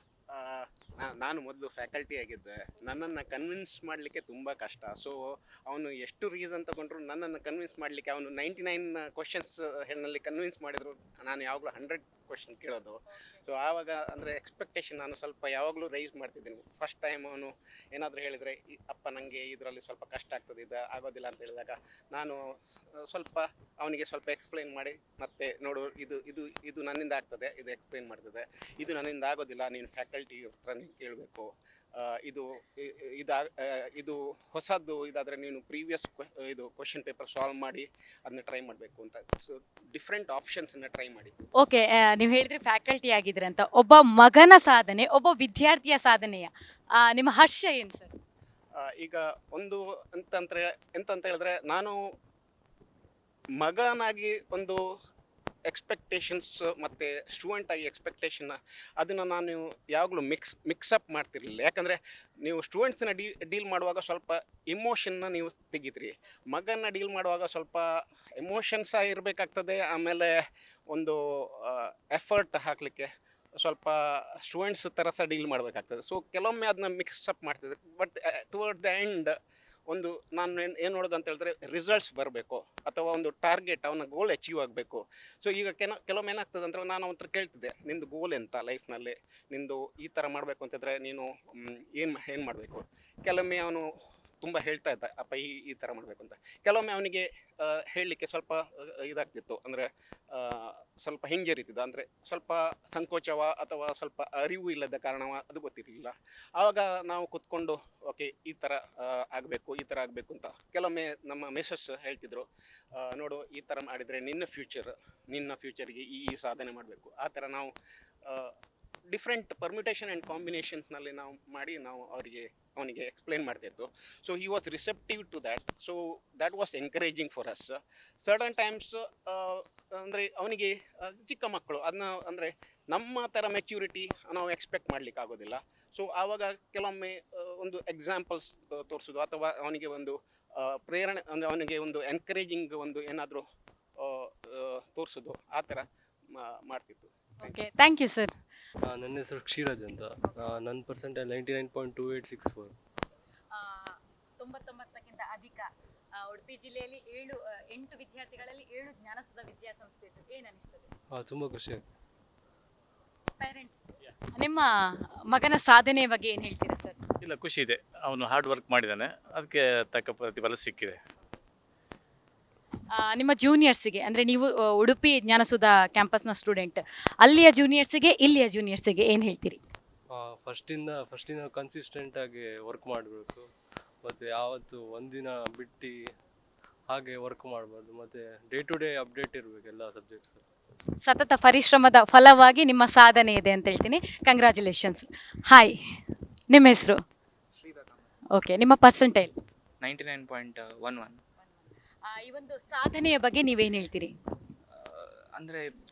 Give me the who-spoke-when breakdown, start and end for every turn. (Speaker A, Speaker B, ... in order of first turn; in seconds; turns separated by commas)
Speaker A: 0.3-41.4, Speaker B: 41.6-48.1, Speaker A: 48.8-52.0, Speaker A: 53.6-54.8, Speaker A: 55.7-70.3, Speaker A: 70.9-73.1, Speaker A: 73.6-79.4, Speaker A: 79.9-93.9, Speaker A: 94.4-117.7, Speaker A: 118.2-118.5, Speaker A: 119.1-143.4, Speaker A: 144.0-147.5, Speaker B: 147.4-148.3, Speaker C: 148.8-152.7, Speaker B: 153.5-160.9, Speaker C: 161.1-161.8, Speaker B: 163.4-163.8, Speaker B: 164.3-164.7, Speaker B: 165.3-167.0, Speaker D: 167.2-171.0, Speaker B: 172.9-179.6, Speaker C: 180.1-183.5, Speaker C: 184.0-185.9, Speaker C: 186.9-190.4, Speaker B: 191.0-195.8, Speaker B: 196.5-197.0, Speaker B: 198.3-199.3, Speaker E: 199.8-201.2, Speaker B: 202.1-204.1, Speaker E: 204.8-205.7